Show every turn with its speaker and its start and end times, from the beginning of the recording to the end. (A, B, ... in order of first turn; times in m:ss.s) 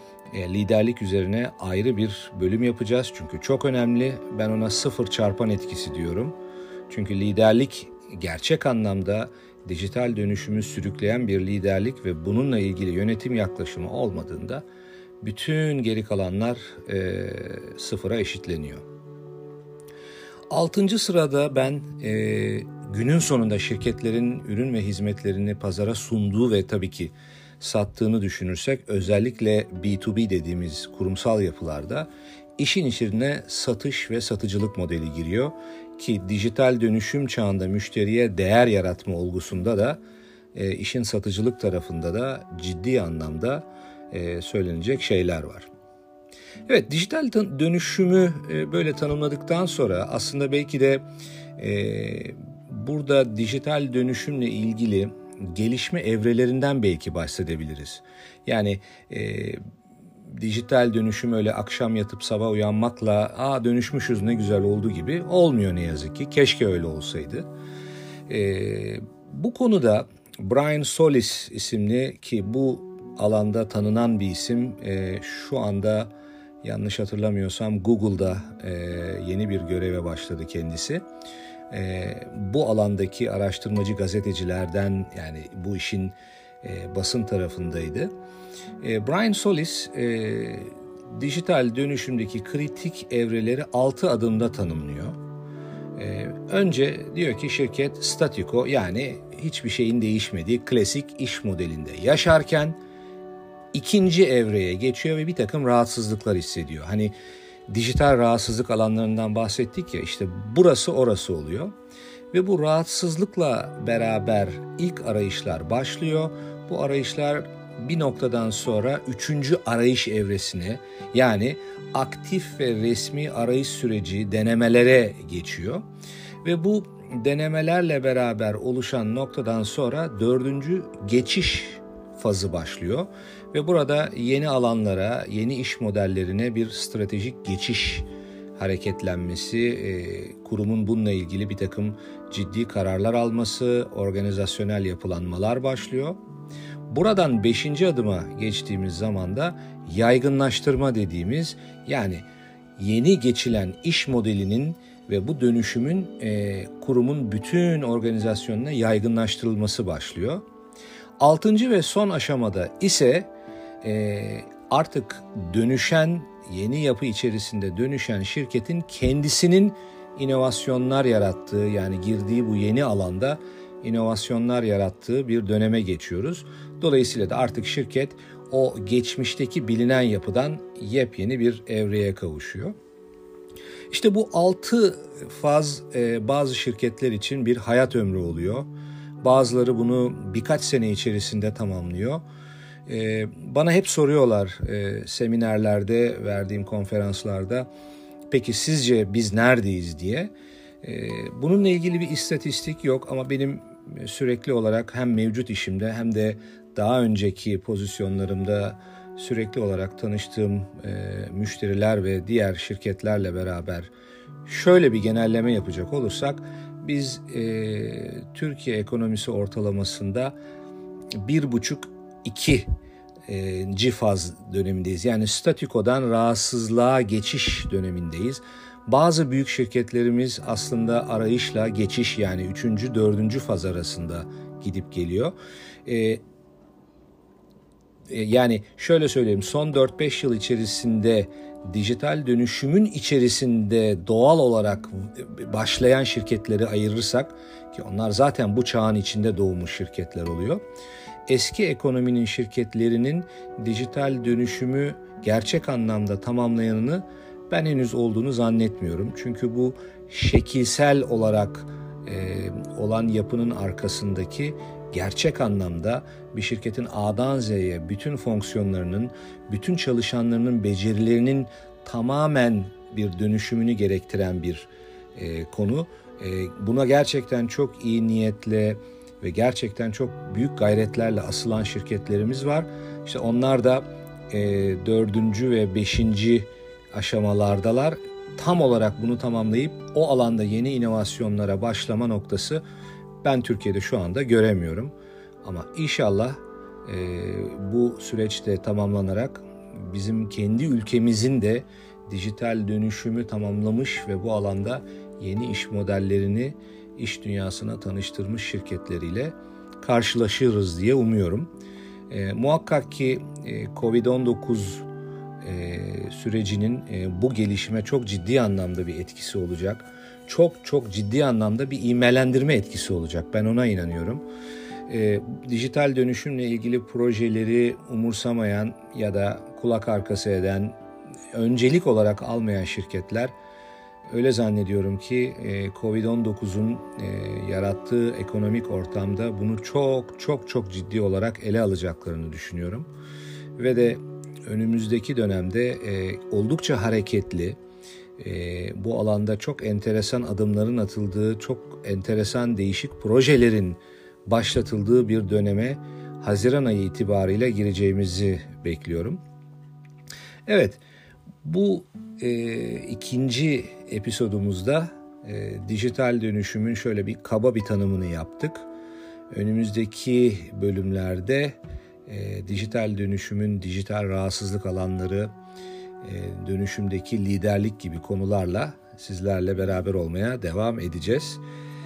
0:00.3-0:06.4 A
0:06.9-0:14.6 A
0:15.2-0:18.8 A
0:20.5-0:40.0 A
0:40.5-0:45.7 A
0:46.7-0:51.0 A
0:51.6-0:59.6 A
1:00.3-1:07.5 A
1:08.3-1:16.1 A
1:16.6-1:21.0 A
1:21.7-1:28.1 A
1:28.8-1:35.2 A
1:36.0-1:42.8 A
1:43.7-1:47.1 A
1:47.7-1:51.7 A
1:52.3-2:05.8 A
2:06.4-2:26.2 A
2:26.9-2:32.2 A
2:32.8-2:40.4 A
2:41.2-2:43.3 A
2:43.8-3:02.7 A
3:03.9-3:08.7 A
3:09.2-3:12.2 A
3:12.9-3:17.7 A
3:18.3-3:33.9 A
3:34.4-3:40.4 A
3:41.2-3:42.7 A
3:43.3-3:56.2 A
3:58.1-4:10.6 A
4:11.3-4:52.6 A
4:53.2-5:11.5 A
5:12.1-5:14.9 A
5:15.4-5:24.2 A
5:24.9-5:30.8 A
5:31.3-5:33.3 A
5:34.1-5:42.9 A
5:43.6-5:47.6 A
5:48.2-5:59.2 A
6:00.5-6:00.8 A
6:01.4-6:08.6 A
6:09.3-6:15.3 A
6:16.0-6:21.4 A